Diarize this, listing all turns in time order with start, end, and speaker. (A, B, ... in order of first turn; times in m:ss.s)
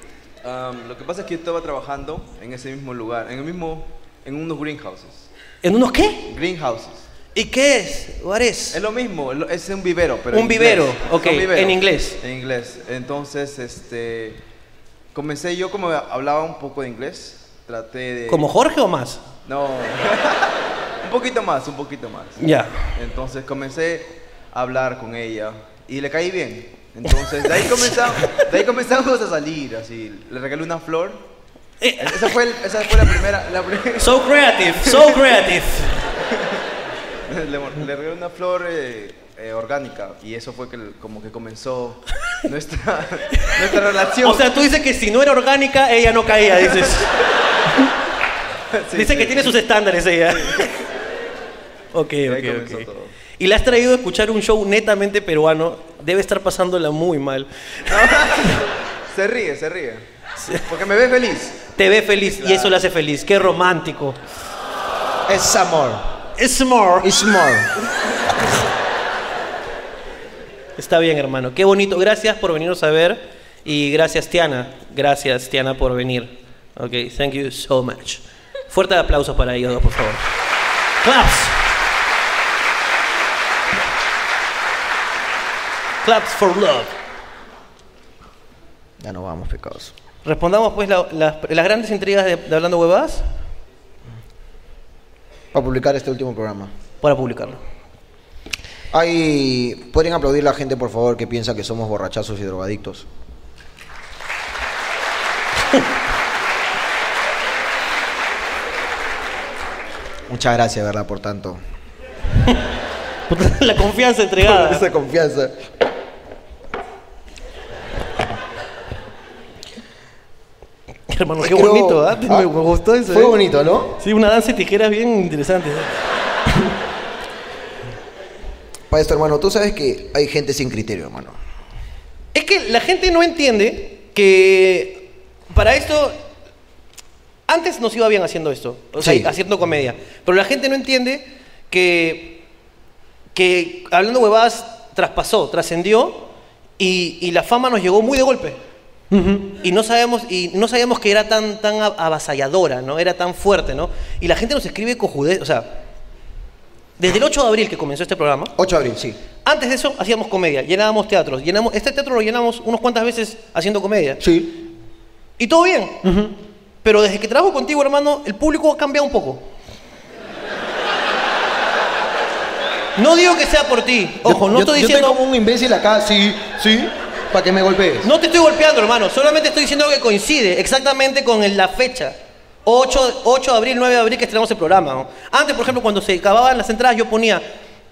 0:00.4-0:05.3 A
0:05.6-0:06.2 B
0:06.3-0:07.0 A
0:07.3-0:08.8 B
0:08.7-0:14.4 A
0:10.3-0:12.2 B
0:15.1-0:18.5 A
0:18.3-0:19.2 B
0:19.4-0:31.2 A
0:22.4-0:22.9 B
0:27.6-0:28.4 B
0:31.8-0:32.4 B
0:32.0-0:34.2 A
0:34.0-0:36.0 B
0:34.8-0:35.2 A
0:36.3-0:36.6 A
0:37.3-0:44.5 A
0:43.3-0:43.6 B
0:44.2-0:47.1 B
0:46.7-0:47.1 A
0:48.7-0:49.5 A
0:48.9-0:50.7 B
0:50.4-0:50.7 A
0:51.9-0:58.5 B
0:52.3-0:53.1 A
0:57.9-1:00.0 A
1:00.6-1:02.8 A
1:01.8-1:04.2 B
1:05.3-1:06.0 C
1:06.4-1:07.1 B
1:07.0-1:07.7 C
1:10.8-1:20.3 B
1:21.0-1:21.6 B
1:26.0-1:27.0 B
1:29.0-1:29.9 C
1:30.2-1:33.2 B
1:35.5-1:36.7 C
1:37.0-1:37.6 B
1:38.9-1:43.1 C
1:50.3-1:51.6 C
1:53.3-1:54.8 B
1:54.4-1:55.6 C
2:01.1-2:03.3 B
2:01.4-2:02.5 C
2:03.1-2:04.0 C
2:04.0-2:06.0 B
2:08.9-2:11.3 C
2:12.3-2:16.2 B
2:17.5-2:22.4 B
2:19.0-2:19.3 C
2:23.3-2:26.3 B
2:26.8-2:28.6 B
2:29.1-2:29.5 C
2:29.6-2:35.7 B
2:37.0-2:38.5 B
2:38.6-2:39.2 C
2:39.4-2:44.2 B
2:44.2-2:44.6 C
2:45.4-2:46.0 B
2:46.0-2:46.3 C
2:46.8-2:49.4 B
2:53.0-2:55.2 B
2:54.2-2:58.1 C
2:58.0-3:07.4 B